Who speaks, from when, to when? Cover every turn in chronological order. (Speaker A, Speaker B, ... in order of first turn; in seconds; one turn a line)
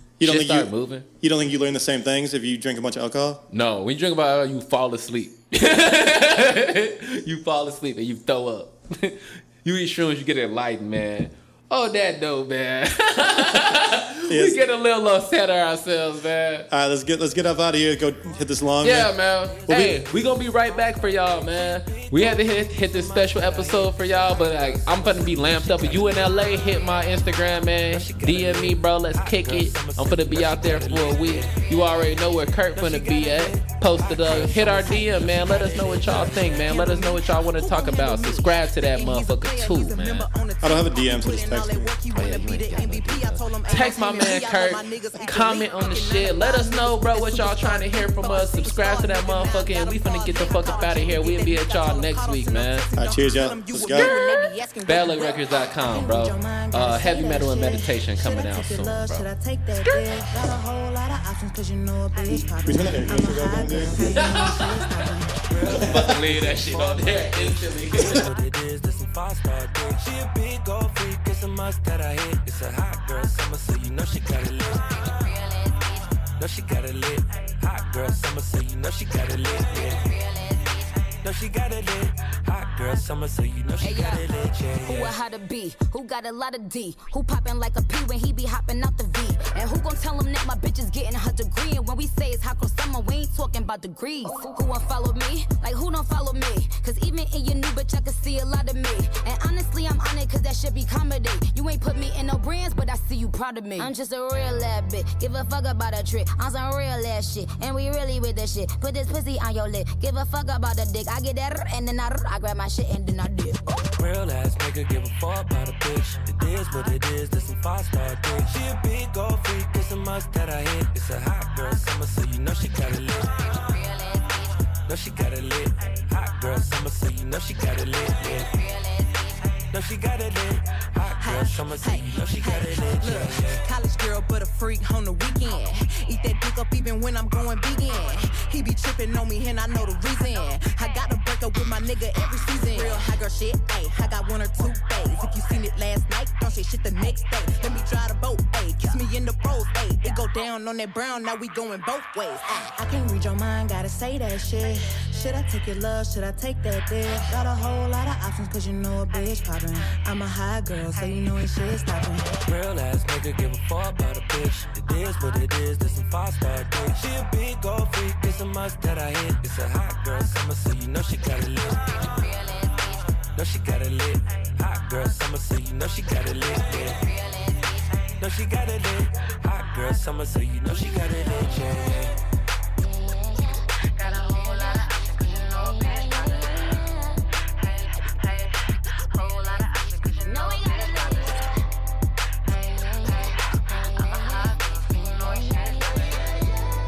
Speaker A: 0.2-3.4
Speaker B: 0.2-1.1
Speaker B: 3.5-16.7
Speaker A: 14.3-14.6
Speaker A: 16.7-20.0
Speaker B: 18.8-40.3
Speaker C: 19.4-36.8
Speaker D: 34.6-35.2
Speaker D: 36.5-65.5
Speaker A: 40.6-41.9
Speaker B: 42.1-52.9
Speaker A: 53.0-54.1
Speaker B: 53.9-59.3
Speaker A: 62.3-64.1
Speaker B: 64.0-65.0
Speaker C: 65.5-75.0
Speaker B: 65.7-68.3
Speaker A: 65.7-66.2
Speaker A: 68.0-68.2
Speaker C: 76.4-80.1
Speaker C: 81.2-85.1
Speaker E: 83.8-84.2
Speaker E: 84.8-113.6
Speaker C: 113.9-123.5
Speaker C: 124.8-128.6
Speaker C: 129.7-133.6
Speaker D: 131.2-162.3
Speaker C: 162.4-172.0
Speaker C: 173.3-177.1
Speaker C: 178.2-182.2
Speaker E: 182.8-187.2
Speaker E: 187.8-188.4
Speaker E: 189.1-191.5
Speaker E: 192.5-196.4